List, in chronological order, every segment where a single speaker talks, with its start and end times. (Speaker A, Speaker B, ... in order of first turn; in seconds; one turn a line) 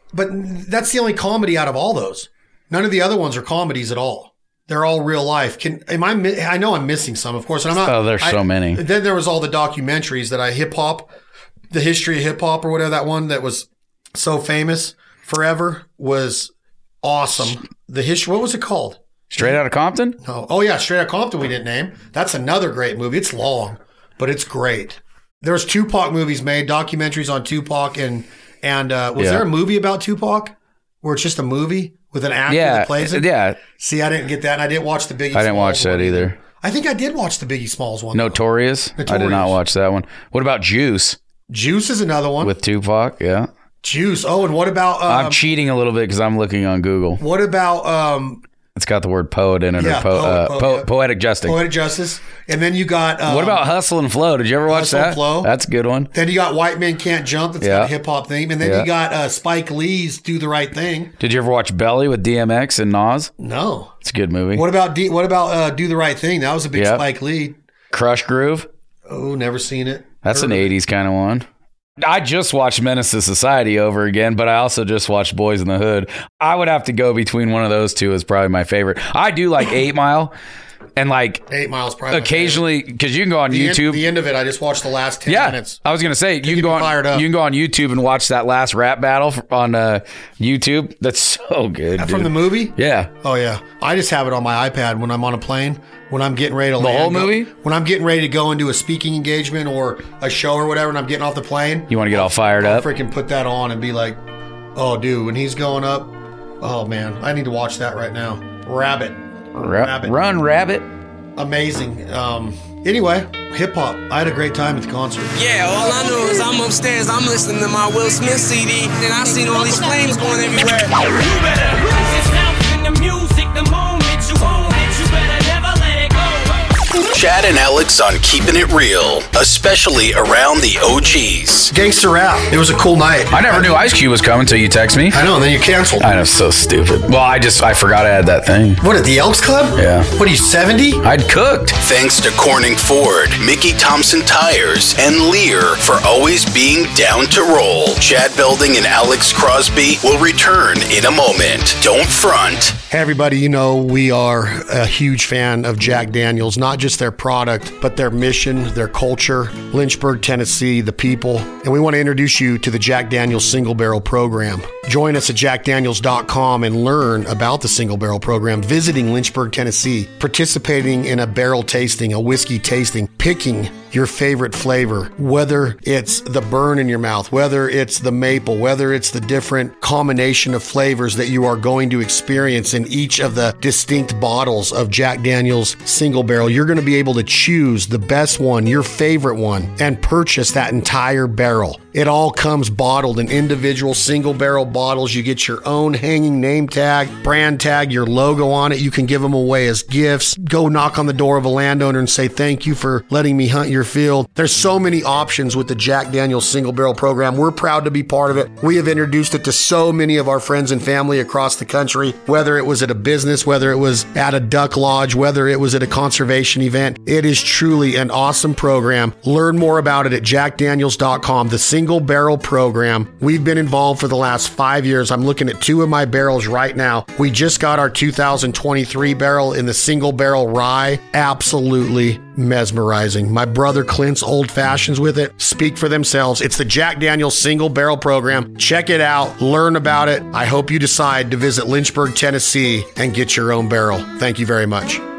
Speaker A: 0.1-11.1
Speaker B: 7.8-8.8
Speaker A: 11.7-19.6
Speaker B: 19.3-20.2
Speaker A: 20.2-38.4
Speaker B: 29.2-29.5
Speaker B: 32.5-33.6
Speaker B: 35.3-36.4
Speaker B: 38.1-41.2
Speaker A: 39.0-39.6
Speaker A: 41.5-42.5
Speaker B: 42.4-43.5
Speaker A: 43.8-45.4
Speaker B: 45.1-47.2
Speaker A: 47.2-48.4
Speaker B: 48.7-51.6
Speaker A: 49.8-50.9
Speaker A: 51.4-53.6
Speaker B: 53.2-56.1
Speaker A: 54.7-55.5
Speaker A: 56.1-61.1
Speaker B: 57.6-57.9
Speaker B: 58.6-58.9
Speaker B: 61.2-63.3
Speaker A: 63.4-63.9
Speaker B: 64.0-64.7
Speaker A: 64.5-67.6
Speaker B: 66.7-67.0
Speaker B: 67.9-68.7
Speaker A: 69.1-70.7
Speaker B: 70.2-71.4
Speaker B: 72.0-80.3
Speaker B: 81.0-81.4
Speaker A: 81.5-82.6
Speaker B: 82.1-84.1
Speaker A: 83.5-85.8
Speaker B: 85.3-93.1
Speaker A: 86.4-87.3
Speaker A: 92.0-104.2
Speaker B: 96.8-97.5
Speaker B: 101.9-102.9
Speaker A: 104.7-110.2
Speaker B: 109.6-110.9
Speaker A: 111.3-115.4
Speaker C: 115.4-121.8
Speaker D: 122.5-126.1
Speaker C: 123.0-124.8
Speaker C: 125.4-126.0
Speaker E: 127.0-131.7
Speaker A: 131.7-133.8
Speaker B: 133.3-135.2
Speaker A: 135.1-136.1
Speaker B: 136.0-138.8
Speaker A: 138.8-141.0
Speaker B: 139.8-140.1
Speaker B: 141.0-141.8
Speaker E: 141.8-152.8
Speaker A: 152.9-245.0